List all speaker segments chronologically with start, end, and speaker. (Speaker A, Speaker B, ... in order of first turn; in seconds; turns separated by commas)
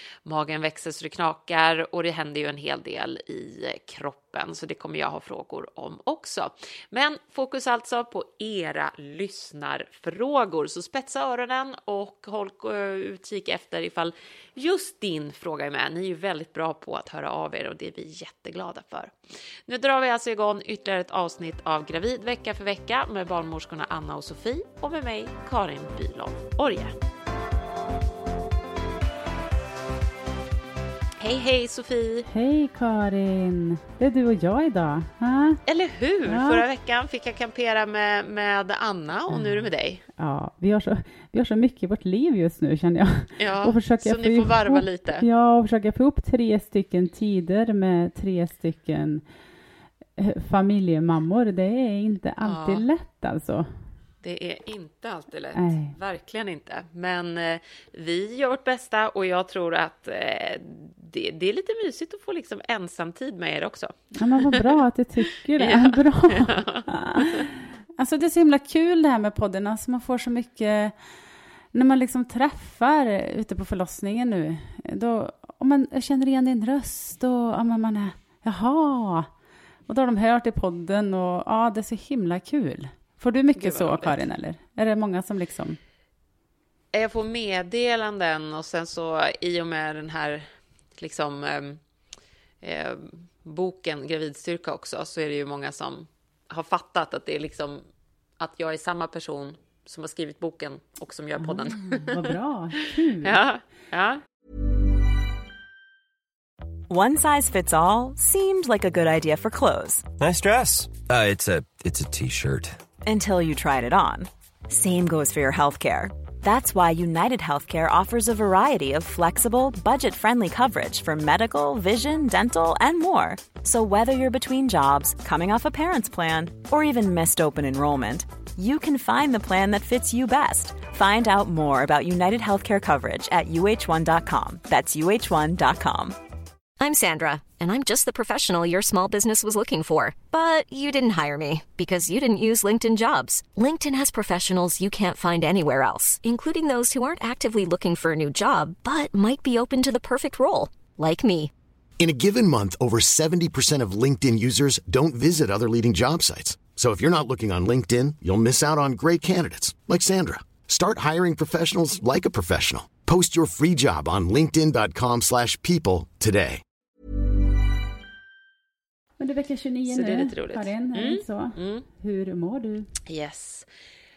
Speaker A: 0.2-19.1, Speaker A: 19.7-26.9, Speaker A: 31.2-32.3, Speaker B: 32.2-35.6, Speaker A: 35.7-40.0, Speaker B: 36.2-36.6, Speaker B: 39.3-49.3, Speaker A: 43.4-45.2, Speaker B: 50.2-53.9, Speaker A: 52.4-52.9, Speaker A: 54.2-64.7, Speaker B: 55.5-56.0, Speaker B: 64.2-79.3, Speaker A: 65.6-67.4, Speaker B: 79.9-85.8, Speaker A: 83.5-84.2, Speaker A: 86.9-91.8, Speaker A: 92.6-97.8, Speaker A: 98.4-102.3, Speaker B: 101.4-103.5, Speaker A: 103.2-104.2, Speaker C: 106.9-110.1, Speaker D: 110.2-112.8, Speaker C: 113.0-136.2, Speaker E: 136.8-151.5, Speaker F: 152.0-166.6, Speaker B: 169.2-172.9, Speaker A: 169.8-171.8, Speaker A: 173.1-173.7